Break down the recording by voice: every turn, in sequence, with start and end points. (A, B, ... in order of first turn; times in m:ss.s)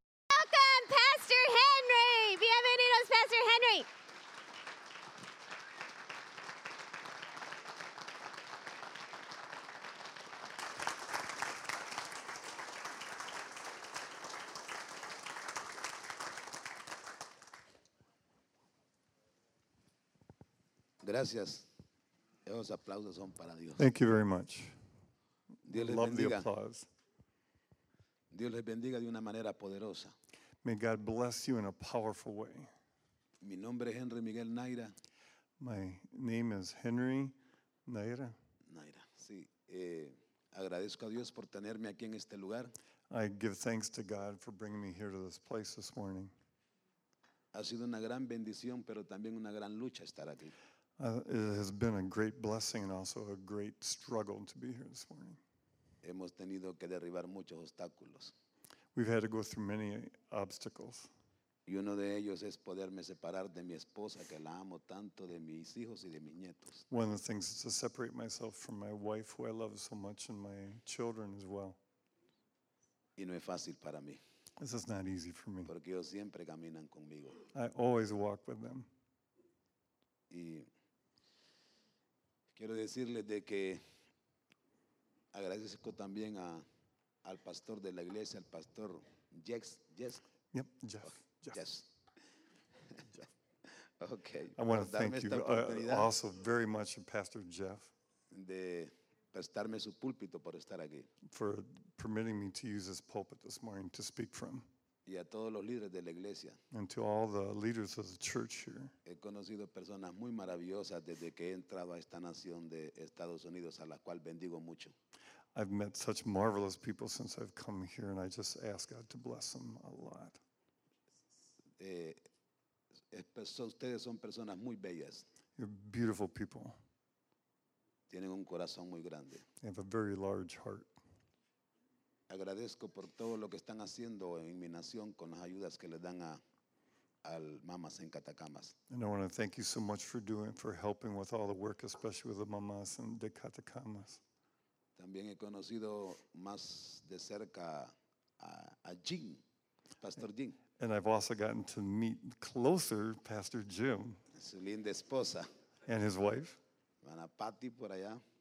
0:00.3-0:03.9 A
0:21.0-0:21.7 B
0:22.4-0:23.8 B
0:23.8-0:24.8 C
0:25.6-0:26.9 C
0:25.7-0:26.5 B
0:28.3-0:30.1 B
0:30.6-0:32.7 C
0:33.4-0:34.9 B
0:35.6-0:38.3 C
0:38.7-0:42.7 B
0:43.1-0:46.3 C
0:47.5-0:50.5 B
0:51.0-0:55.4 C
0:56.0-0:58.3 B
0:58.9-1:01.1 C
1:01.7-1:06.8 B
1:06.9-1:11.8 C
1:13.2-1:14.2 B
1:14.6-1:15.7 C
1:15.6-1:17.4 B
1:17.5-1:18.9 C
1:20.3-1:20.7 B
1:22.6-1:23.8 B
1:25.3-1:26.6 B
1:27.2-1:30.2 B
1:30.5-1:31.6 C
1:31.5-1:31.9 B
1:32.9-1:36.1 B
1:34.6-1:37.9 C
1:38.3-1:41.1 B
1:41.2-1:44.7 C
1:45.0-1:46.6 B
1:46.7-1:48.9 C
1:49.0-1:54.9 B
1:55.5-2:00.4 C
2:01.8-2:02.2 B
2:03.1-2:05.2 B
2:05.6-2:06.8 C
2:08.1-2:09.4 B
2:09.6-2:10.9 C
2:12.3-2:16.4 B
2:17.2-2:18.7 B
2:18.9-2:24.2 C
2:25.0-2:29.4 B
2:30.0-2:30.6 B
2:30.8-2:34.2 C
2:34.3-2:35.5 B
2:35.8-2:36.6 C
2:37.0-2:38.2 B